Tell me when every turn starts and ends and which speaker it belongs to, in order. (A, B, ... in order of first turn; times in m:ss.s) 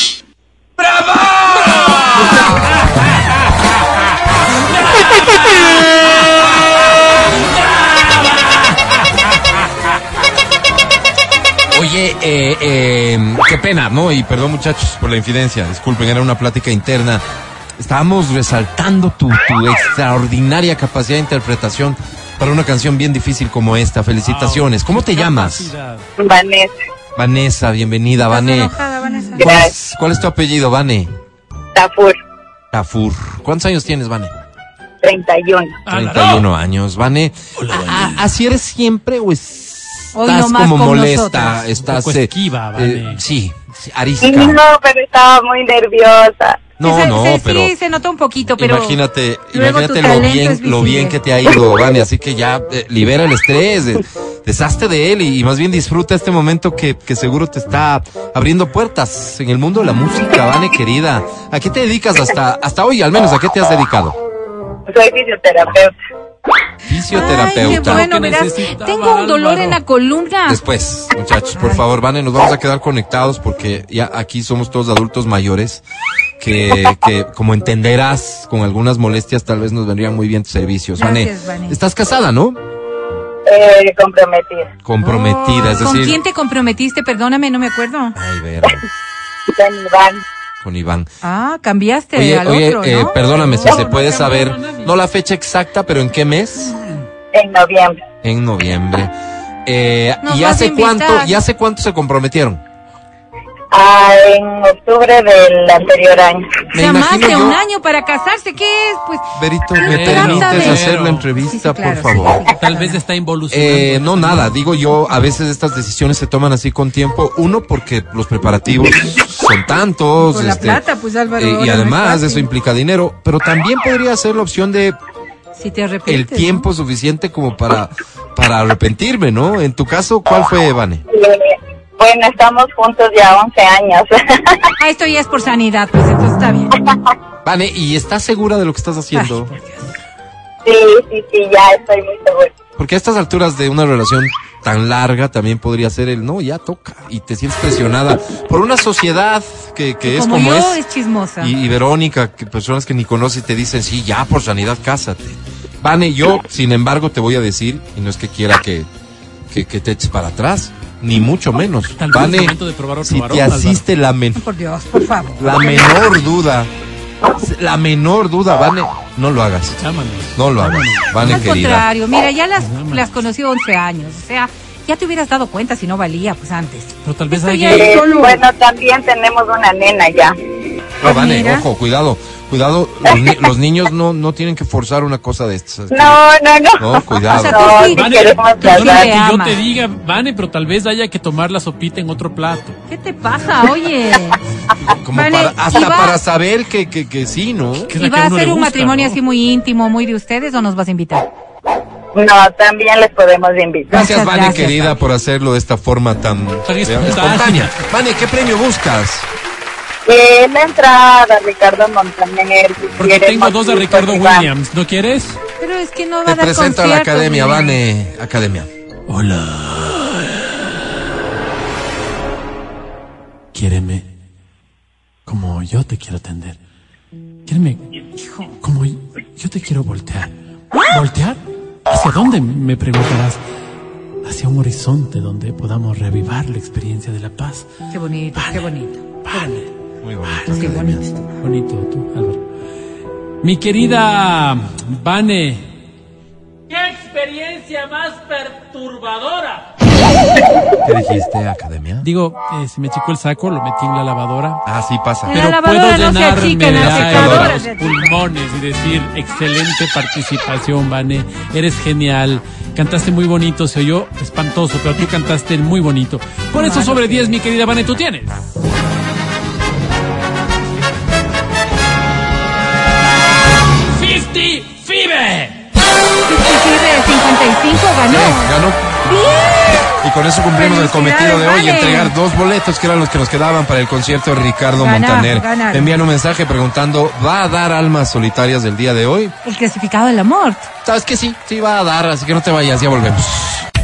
0:04.9-0:05.8 A
0:07.6-0:08.7 A
0:11.7-0:17.2 B
0:17.8-0:25.7 B
0:24.2-0:26.1 A
0:26.2-0:26.7 C
0:27.2-0:28.8 B
0:28.2-0:29.5 D
0:29.4-0:29.7 C
0:29.4-0:31.1 B
0:31.8-0:32.2 C
0:32.7-0:34.4 B
0:35.0-0:35.8 C
0:35.9-0:36.4 A
0:35.9-0:44.6 B
0:37.6-0:38.3 A
0:40.1-0:41.6 D
0:41.8-0:43.2 A
0:44.2-0:46.6 C
0:46.8-0:47.8 B
0:46.8-0:49.0 D
0:48.6-1:04.2 B
0:49.5-0:51.2 D
1:04.9-1:05.9 C
1:06.9-1:08.1 B
1:07.1-1:10.6 D
1:07.2-1:09.8 A
1:10.5-1:15.8 B
1:11.5-1:11.8 D
1:16.4-1:22.6 B
1:21.0-1:21.8 D
1:23.5-1:24.7 C
1:24.8-1:26.2 B
1:25.0-1:28.2 D
1:28.1-1:28.8 B
1:29.5-1:30.2 C
1:30.6-1:31.1 B
1:31.2-1:33.2 D
1:32.1-1:36.8 B
1:33.3-1:35.0 A
1:37.3-1:38.0 C
1:38.2-1:39.1 B
1:39.6-1:42.6 B
1:40.2-1:41.4 D
1:43.7-1:46.5 C
1:46.7-1:47.6 B
1:46.8-1:50.8 D
1:49.4-1:52.4 B
1:49.9-1:51.3 A
1:51.4-1:53.0 D
1:52.6-1:54.6 A
1:53.5-2:00.8 B
2:00.2-2:02.5 D
2:01.4-2:05.0 B
2:05.5-2:06.6 D
2:06.1-2:11.0 B
2:11.1-2:14.6 C
2:14.8-2:16.7 D
2:17.4-2:19.5 B
2:19.1-2:19.9 D
2:20.6-2:22.5 C
2:22.8-2:30.8 B
2:30.0-2:31.5 D
2:31.4-2:38.9 B
2:39.5-2:44.4 B
2:42.0-2:43.8 A
2:44.4-2:46.2 D
2:45.4-2:46.7 B
2:47.3-2:49.8 B
2:49.8-2:51.6 A
2:50.4-2:51.9 B
2:51.2-2:58.4 D
2:52.6-2:53.2 A
2:57.0-2:57.9 A
2:57.7-3:00.4 C
3:01.0-3:06.2 B
3:01.0-3:01.7 D
3:05.9-3:09.1 C
3:06.8-3:07.9 B
3:07.3-3:08.1 D
3:07.8-3:12.8 A
3:08.6-3:09.6 D
3:12.9-3:14.4 D
3:14.9-3:17.9 B
3:15.1-3:16.2 D
3:17.9-3:19.2 A
3:18.0-3:21.2 D
3:22.1-3:23.9 C
3:23.9-3:25.0 D
3:23.9-3:29.3 B
3:26.6-3:27.8 A
3:30.0-3:34.5 C
3:33.0-3:35.4 A
3:35.6-3:37.8 D
3:36.2-3:38.7 B
3:39.1-3:40.5 A
3:43.5-3:44.0 A
3:45.2-3:46.6 A
3:47.5-3:47.9 A
3:48.2-3:48.5 D
3:48.6-3:50.3 A
3:50.9-3:53.4 A
3:54.2-3:57.6 A
3:57.9-3:59.6 D
3:58.4-3:58.7 A
3:59.2-3:59.7 A
4:00.0-4:01.1 B
4:00.5-4:01.1 D
4:01.4-4:02.4 A
4:03.4-4:05.6 A
4:06.7-4:09.7 A
4:10.8-4:12.1 B
4:12.0-4:14.6 A
4:14.6-4:15.4 B
4:15.3-4:18.2 D
4:15.3-4:28.4 A
4:16.7-4:17.6 B
4:26.5-4:27.3 D
4:33.9-4:35.6 A
4:36.2-4:38.5 D
4:38.0-4:38.9 B
4:39.0-4:40.0 D
4:40.0-4:49.3 B
4:40.6-4:42.1 D
4:44.8-4:45.9 D
4:49.4-4:50.7 D
4:50.8-4:53.7 B